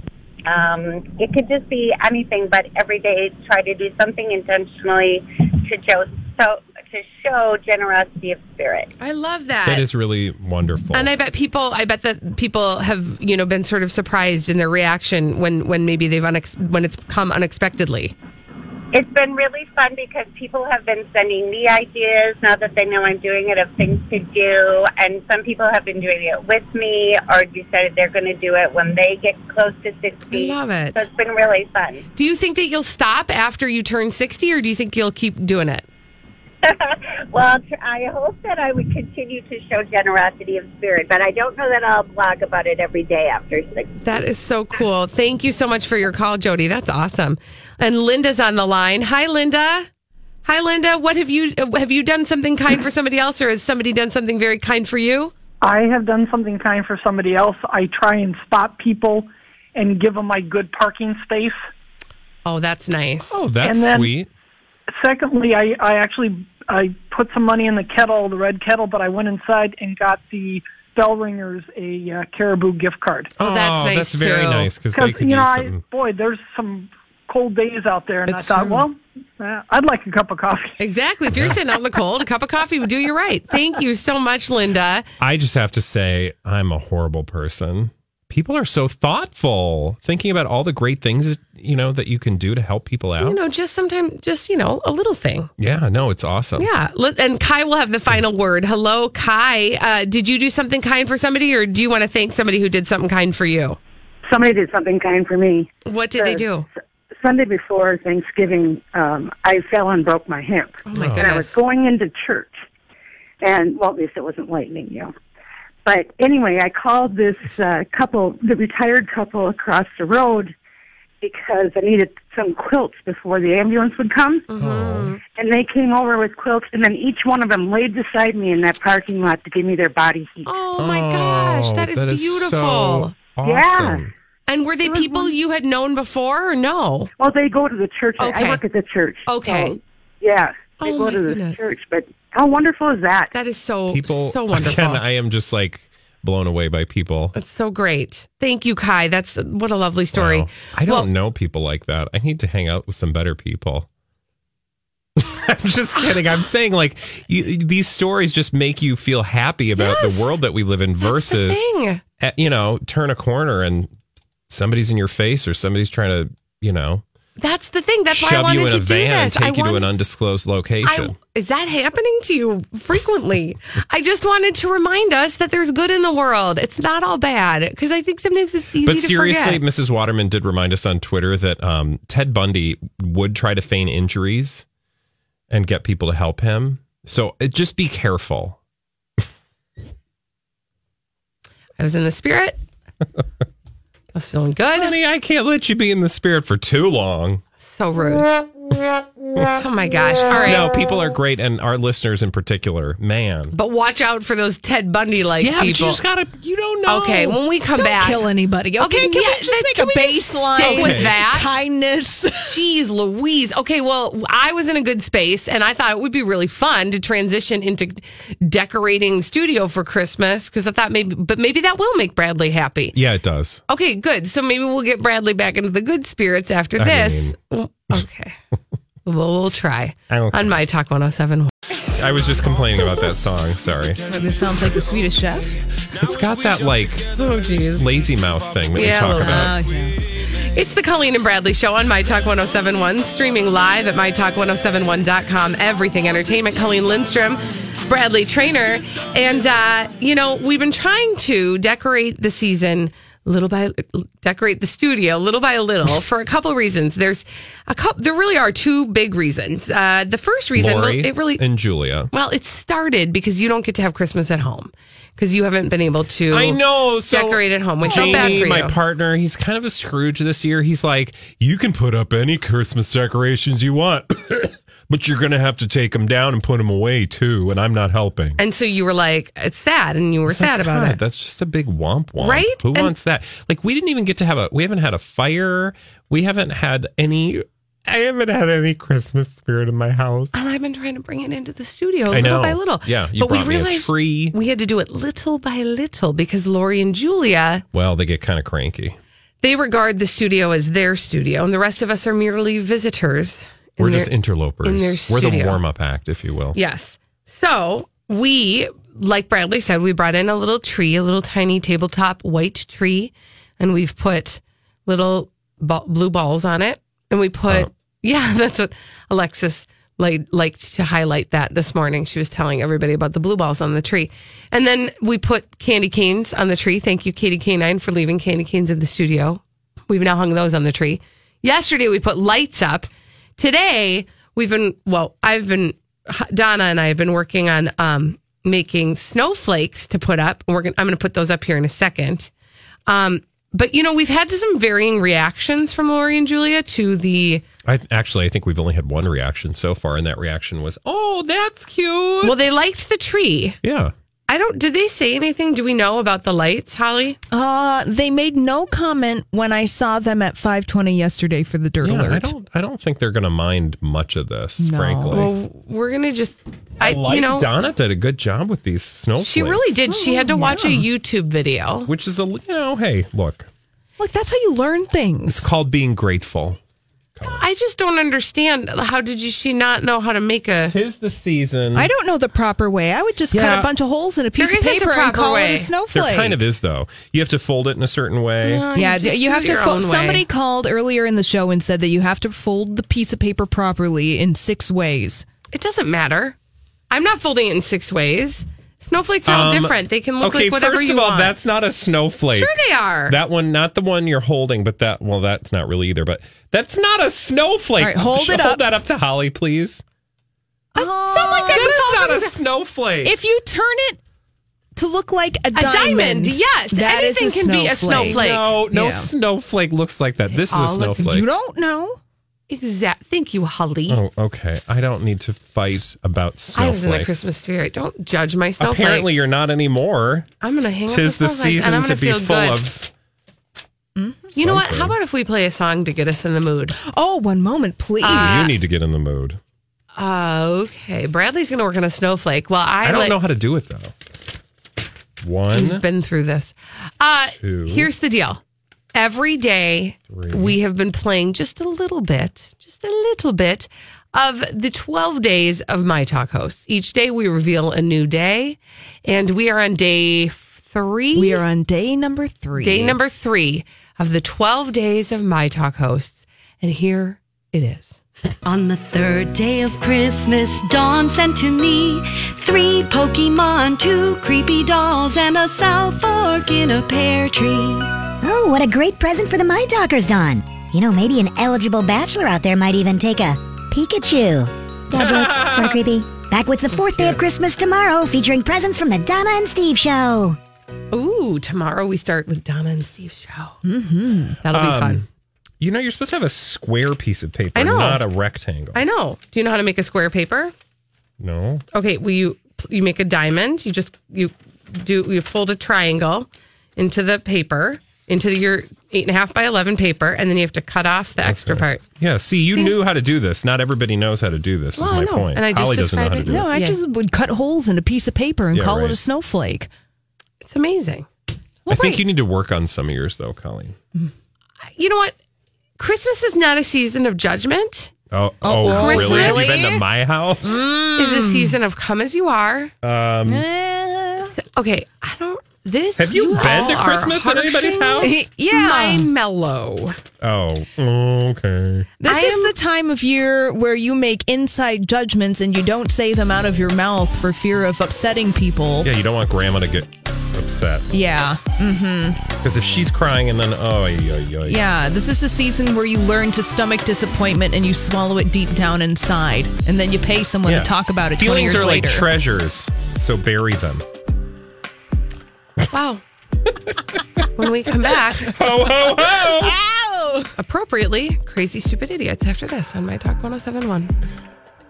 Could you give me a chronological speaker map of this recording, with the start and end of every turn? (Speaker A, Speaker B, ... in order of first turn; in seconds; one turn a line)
Speaker A: 0.5-8.9
Speaker B: 9.0-9.9
Speaker C: 9.7-11.1
Speaker B: 10.9-18.1
Speaker A: 18.9-32.1
Speaker B: 30.3-31.1
Speaker B: 32.2-35.9
Speaker A: 36.6-43.9
Speaker B: 44.0-49.9
Speaker B: 50.5-55.3
Speaker D: 55.6-61.6
Speaker B: 62.5-63.4
Speaker C: 63.3-64.3
Speaker D: 63.6-64.1
Speaker D: 65.0-73.3
Speaker C: 73.4-75.8
Speaker B: 73.4-74.7
Speaker D: 74.9-80.8
Speaker B: 78.3-78.9
Speaker B: 80.8-85.1
Speaker C: 81.3-81.6
Speaker C: 85.2-93.4
Speaker B: 93.2-95.5
Speaker C: 95.6-96.7
Speaker B: 96.6-103.8
Speaker E: 104.2-106.5
Speaker B: 105.9-106.7
Speaker E: 107.2-112.6
Speaker B: 110.9-111.6
Speaker C: 110.9-111.3
Speaker E: 113.4-115.1
Speaker E: 115.8-120.5
Speaker E: 121.2-124.5
Speaker B: 124.5-125.2
Speaker C: 124.6-125.1
Speaker E: 125.2-130.5
Speaker B: 130.4-133.1
Speaker C: 130.8-134.1
Speaker E: 133.4-134.0
Speaker B: 134.5-137.1
Speaker E: 134.8-135.3
Speaker E: 137.2-143.3
Speaker B: 138.2-138.6
Speaker B: 139.2-139.8
Speaker B: 140.8-141.7
Speaker B: 143.3-145.0
Speaker C: 143.9-147.3
Speaker B: 147.3-151.1
Speaker C: 150.1-153.9
Speaker C: 155.2-161.7
Speaker B: 159.8-160.4
Speaker B: 161.0-162.0
Speaker C: 162.2-163.9
Speaker C: 164.5-167.0
Speaker B: 167.4-169.9
Speaker C: 168.1-171.2
Speaker B: 170.8-179.6
Speaker C: 178.8-184.6
Speaker C: 185.5-188.6
Speaker B: 191.8-192.6
Speaker B: 194.1-194.9
Speaker C: 194.7-197.4
Speaker B: 197.6-198.3
Speaker B: 199.5-200.7
Speaker C: 200.3-203.6
Speaker B: 203.5-206.0
Speaker C: 205.4-207.4
Speaker B: 206.9-208.3
Speaker F: 207.8-212.6
Speaker B: 208.8-211.6
Speaker C: 210.6-211.1
Speaker B: 212.5-223.0
Speaker C: 222.9-223.6
Speaker B: 223.7-228.4
Speaker C: 226.8-227.4
Speaker B: 229.1-232.0
Speaker C: 230.1-230.6
Speaker C: 232.0-234.1
Speaker F: 234.1-235.6
Speaker C: 235.9-237.1
Speaker B: 237.1-237.9
Speaker C: 237.8-239.6
Speaker B: 238.8-239.5
Speaker F: 239.3-239.9
Speaker B: 240.3-261.4
Speaker C: 260.6-262.1
Speaker B: 262.1-268.8
Speaker C: 266.3-278.4
Speaker F: 267.9-268.5
Speaker B: 278.4-281.0
Speaker C: 280.3-290.3
Speaker B: 282.2-282.9
Speaker B: 290.3-297.6
Speaker C: 292.1-294.4
Speaker C: 297.7-299.0
Speaker B: 299.4-305.6
Speaker C: 303.8-306.6
Speaker B: 306.5-342.3
Speaker B: 342.9-347.4
Speaker C: 347.6-352.4
Speaker B: 352.2-353.6
Speaker C: 353.6-353.9
Speaker B: 354.3-357.2
Speaker F: 357.3-362.3
Speaker C: 361.8-365.3
Speaker F: 364.6-365.3
Speaker B: 365.1-367.5
Speaker C: 366.8-369.8
Speaker B: 369.2-371.9
Speaker F: 369.9-370.9
Speaker C: 371.9-373.5
Speaker F: 374.0-375.5
Speaker C: 375.3-376.6
Speaker C: 377.2-377.4
Speaker B: 377.2-380.7
Speaker C: 380.7-381.9
Speaker F: 381.8-386.4
Speaker C: 383.3-383.7
Speaker B: 384.4-385.7
Speaker C: 385.9-388.6
Speaker B: 388.4-390.2
Speaker F: 388.7-395.2
Speaker B: 395.5-396.4
Speaker B: 396.9-401.4
Speaker C: 399.2-409.8
Speaker B: 402.3-403.2
Speaker F: 407.8-408.6
Speaker B: 410.8-412.3
Speaker F: 410.8-412.1
Speaker C: 411.2-413.1
Speaker F: 413.0-414.0
Speaker F: 414.8-419.1
Speaker B: 415.5-418.5
Speaker C: 418.0-421.3
Speaker F: 420.5-422.0
Speaker B: 420.5-420.8
Speaker B: 422.5-424.0
Speaker C: 423.9-427.2
Speaker B: 426.6-429.2
Speaker C: 428.6-430.3
Speaker B: 430.4-432.6
Speaker C: 430.9-432.9
Speaker F: 434.0-434.3
Speaker C: 434.4-435.0
Speaker B: 434.4-436.8
Speaker F: 436.8-438.5
Speaker B: 438.0-438.6
Speaker C: 438.0-439.4
Speaker B: 440.0-443.2
Speaker C: 442.8-443.9
Speaker C: 445.2-445.8
Speaker B: 445.5-448.4
Speaker C: 447.2-447.9
Speaker B: 448.9-461.4
Speaker C: 450.1-450.6
Speaker F: 461.1-463.0
Speaker B: 462.6-468.0
Speaker G: 468.4-477.9
Speaker H: 478.2-490.4
Speaker C: 484.9-485.8
Speaker C: 486.9-487.1
Speaker B: 490.9-493.6
Speaker F: 493.6-494.4
Speaker B: 494.4-495.1
Speaker C: 494.5-495.1
Speaker C: 495.6-498.8
Speaker B: 497.6-498.1
Speaker B: 498.7-500.5
Speaker C: 501.2-501.6
Speaker B: 501.7-511.8
Speaker C: 511.2-516.5
Speaker B: 514.8-516.8
Speaker F: 516.3-519.7
Speaker C: 518.5-519.0
Speaker B: 520.4-521.1
Speaker C: 521.7-523.8
Speaker B: 524.8-525.1
Speaker B: 525.8-527.9
Speaker C: 528.1-530.6
Speaker F: 528.4-529.8
Speaker B: 528.6-529.8
Speaker F: 530.5-531.6
Speaker B: 530.8-532.7
Speaker C: 532.8-533.5
Speaker F: 533.3-534.4
Speaker B: 534.2-540.0
Speaker C: 536.0-538.3
Speaker F: 538.0-539.1
Speaker C: 540.2-541.9
Speaker F: 542.0-548.9
Speaker B: 542.0-542.5
Speaker C: 548.8-550.9
Speaker F: 550.9-552.2
Speaker C: 552.4-554.6
Speaker F: 554.5-562.1
Speaker C: 560.5-563.9
Speaker B: 565.7-566.0
Speaker B: 567.4-568.4
Speaker C: 567.9-569.6
Speaker F: 569.5-570.3
Speaker B: 570.4-573.9